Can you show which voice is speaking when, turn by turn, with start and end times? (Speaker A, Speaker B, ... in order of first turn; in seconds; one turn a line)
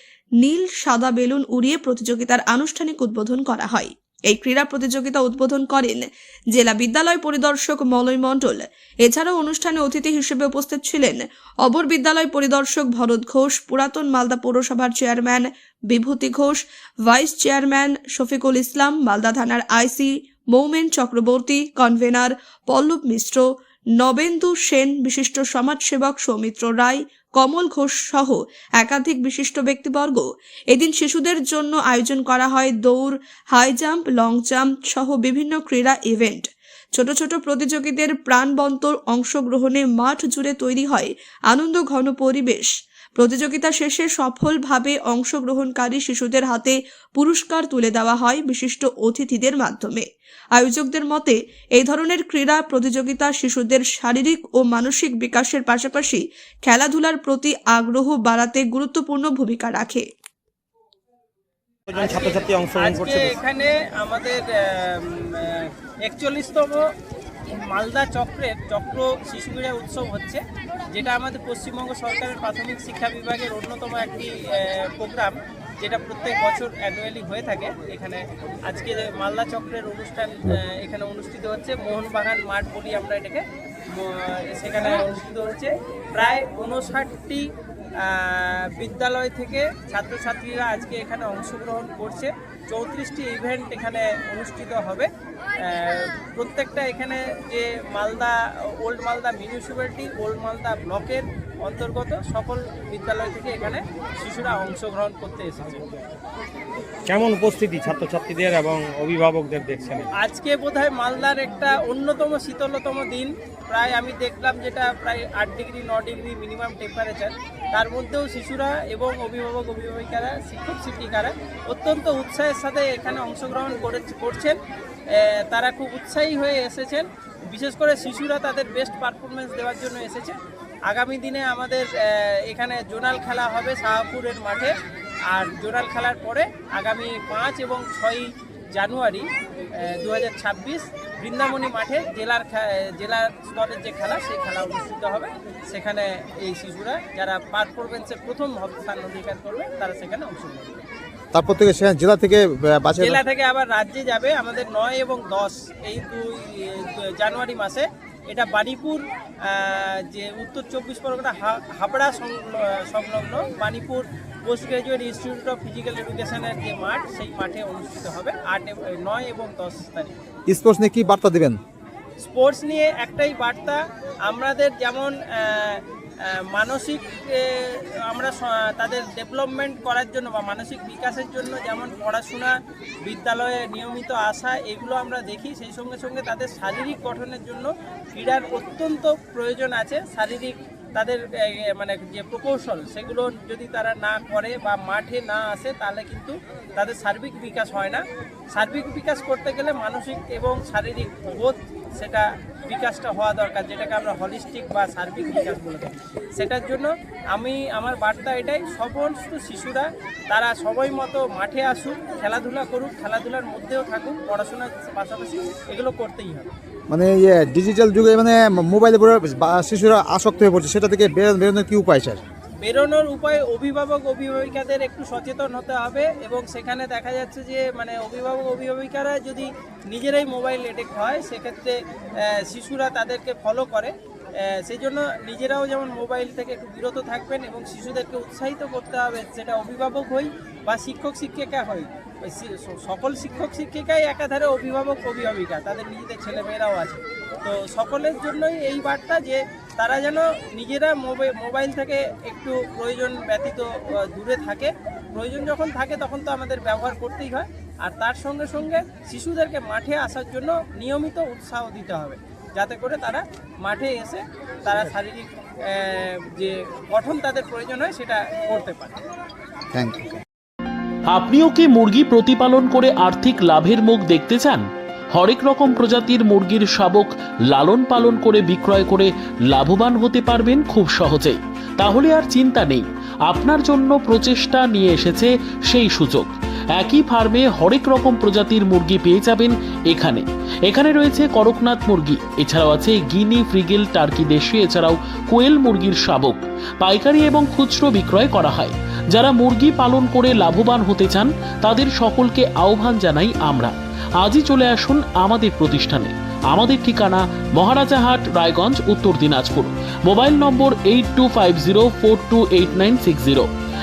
Speaker A: 0.4-23.4
Speaker A: 24.0-60.1
Speaker B: 62.0-66.8
Speaker C: 62.0-63.1
Speaker B: 67.5-87.5
Speaker B: 88.0-95.1
Speaker B: 95.6-105.8
Speaker C: 107.2-110.0
Speaker B: 110.2-124.6
Speaker B: 125.1-130.4
Speaker B: 130.9-134.7
Speaker B: 135.3-139.3
Speaker B: 139.9-150.8
Speaker D: 151.3-153.2
Speaker B: 153.0-170.2
Speaker D: 170.5-171.6
Speaker B: 172.2-182.6
Speaker B: 183.1-198.0
Speaker B: 198.5-216.5
Speaker D: 216.9-222.2
Speaker B: 222.6-269.0
Speaker D: 269.7-270.2
Speaker E: 271.1-313.5